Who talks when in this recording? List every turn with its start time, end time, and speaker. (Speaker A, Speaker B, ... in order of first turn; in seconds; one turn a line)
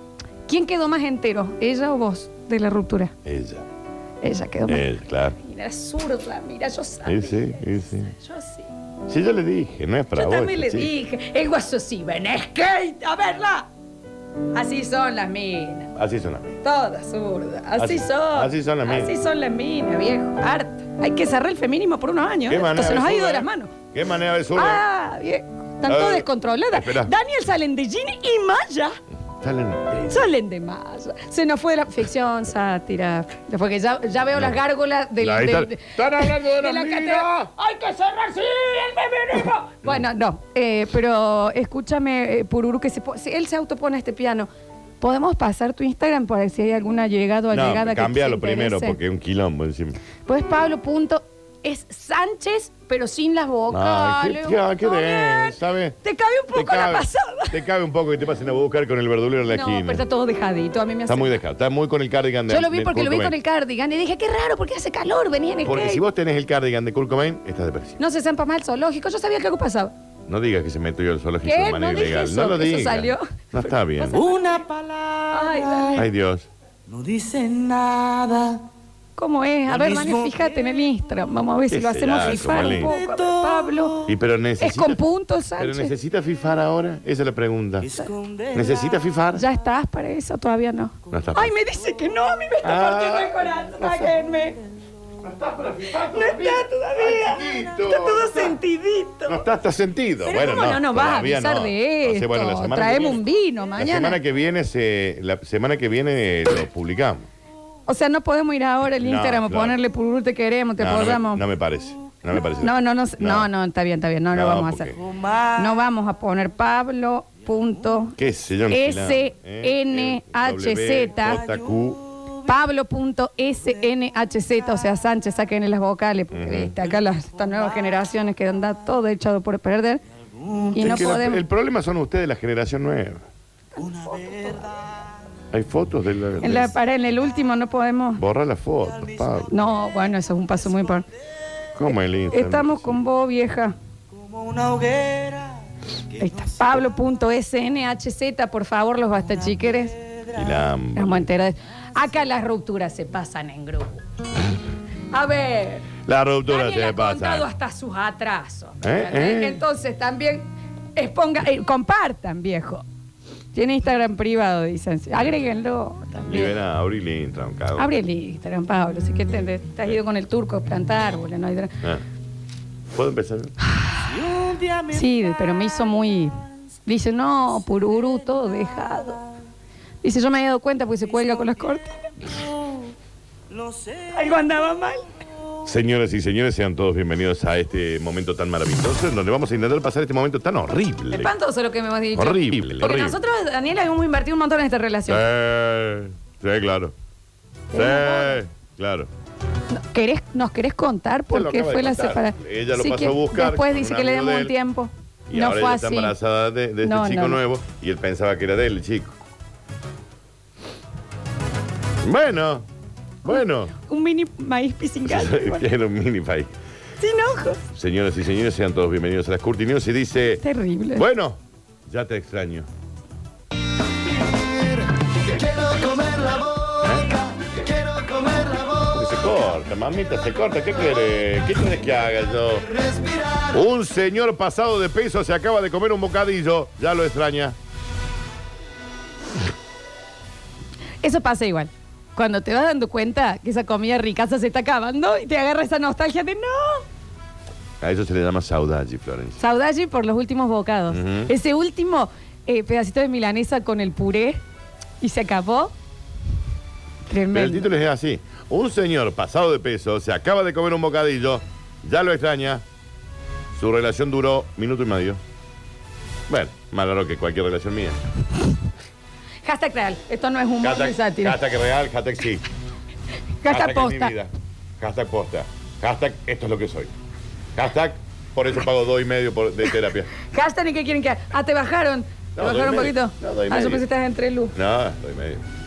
Speaker A: 0.5-3.1
Speaker B: 3.2-3.7
Speaker A: 4.2-8.7
Speaker B: 4.7-5.4
Speaker B: 7.0-8.1
Speaker B: 9.1-10.9
Speaker A: 10.1-13.7
Speaker A: 14.5-15.9
Speaker B: 15.9-16.6
Speaker A: 16.6-23.7
Speaker B: 17.8-19.1
Speaker B: 22.5-24.8
Speaker A: 24.6-29.0
Speaker B: 25.9-27.1
Speaker B: 29.4-30.3
Speaker A: 30.1-44.5
Speaker B: 35.2-37.5
Speaker A: 45.0-49.0
Speaker B: 47.5-50.0
Speaker A: 50.3-57.6
Speaker B: 53.7-56.0
Speaker B: 56.5-60.0
Speaker A: 59.5-61.4
Speaker B: 61.1-63.4
Speaker A: 62.5-66.0
Speaker B: 65.6-68.0
Speaker A: 68.0-69.9
Speaker B: 70.3-74.2
Speaker A: 71.4-74.4
Speaker C: 74.1-76.0
Speaker A: 75.3-76.1
Speaker B: 76.0-76.5
Speaker C: 76.9-78.6
Speaker A: 79.2-84.0
Speaker C: 79.7-80.8
Speaker B: 81.7-82.9
Speaker C: 82.2-84.1
Speaker B: 84.0-85.0
Speaker A: 84.6-85.9
Speaker B: 85.6-87.9
Speaker C: 87.8-89.1
Speaker B: 88.5-89.5
Speaker A: 89.3-94.6
Speaker B: 91.1-91.5
Speaker B: 92.6-94.2
Speaker B: 95.2-98.5
Speaker A: 96.0-99.4
Speaker B: 99.3-103.2
Speaker A: 100.2-104.2
Speaker B: 103.8-107.3
Speaker A: 107.9-111.4
Speaker B: 109.0-109.8
Speaker B: 110.8-113.5
Speaker A: 112.4-115.0
Speaker B: 114.3-115.0
Speaker C: 115.0-115.7
Speaker A: 115.5-118.2
Speaker B: 118.2-122.0
Speaker A: 118.7-121.5
Speaker C: 121.4-121.8
Speaker A: 122.5-130.0
Speaker B: 126.3-126.8
Speaker C: 130.3-130.9
Speaker A: 130.7-131.4
Speaker B: 130.8-133.2
Speaker A: 133.8-134.7
Speaker C: 133.8-135.1
Speaker B: 135.5-136.7
Speaker A: 136.4-138.2
Speaker B: 138.2-139.5
Speaker C: 138.9-139.4
Speaker A: 139.5-141.1
Speaker B: 141.8-143.0
Speaker A: 142.3-143.8
Speaker C: 144.1-145.6
Speaker A: 146.2-150.0
Speaker C: 146.2-146.8
Speaker C: 150.0-150.5
Speaker B: 150.3-151.3
Speaker A: 150.9-154.0
Speaker A: 155.1-155.9
Speaker B: 156.1-157.5
Speaker A: 156.5-162.8
Speaker B: 158.8-159.6
Speaker A: 163.5-166.6
Speaker B: 166.3-168.0
Speaker A: 167.8-171.7
Speaker B: 172.9-173.6
Speaker A: 173.6-174.1
Speaker C: 174.0-175.1
Speaker A: 174.9-179.2
Speaker A: 180.0-182.0
Speaker C: 182.2-182.9
Speaker C: 183.5-184.6
Speaker A: 184.1-185.1
Speaker B: 185.7-191.3
Speaker A: 191.1-195.2
Speaker B: 192.1-193.2
Speaker B: 195.1-196.9
Speaker A: 197.7-198.4
Speaker B: 197.7-199.1
Speaker A: 199.7-206.1
Speaker B: 201.3-204.5
Speaker B: 205.3-209.2
Speaker A: 206.8-207.4
Speaker B: 212.0-212.7
Speaker B: 213.2-213.7
Speaker A: 213.3-215.6
Speaker B: 215.1-216.6
Speaker A: 217.0-217.7
Speaker B: 217.7-220.4
Speaker A: 220.4-221.1
Speaker B: 220.9-222.7
Speaker C: 225.7-226.4
Speaker B: 226.8-227.2
Speaker B: 228.8-232.7
Speaker B: 233.5-237.6
Speaker A: 241.0-246.9
Speaker B: 247.8-249.4
Speaker A: 249.4-254.4
Speaker B: 250.9-251.3
Speaker A: 255.0-255.7
Speaker A: 257.1-257.7
Speaker B: 257.3-262.6
Speaker B: 263.5-265.2
Speaker B: 266.3-268.0
Speaker A: 269.4-271.4
Speaker B: 270.6-272.4
Speaker A: 273.4-274.1
Speaker B: 273.5-276.9
Speaker B: 277.6-280.1
Speaker A: 280.1-284.6
Speaker B: 282.4-283.9
Speaker B: 284.5-285.4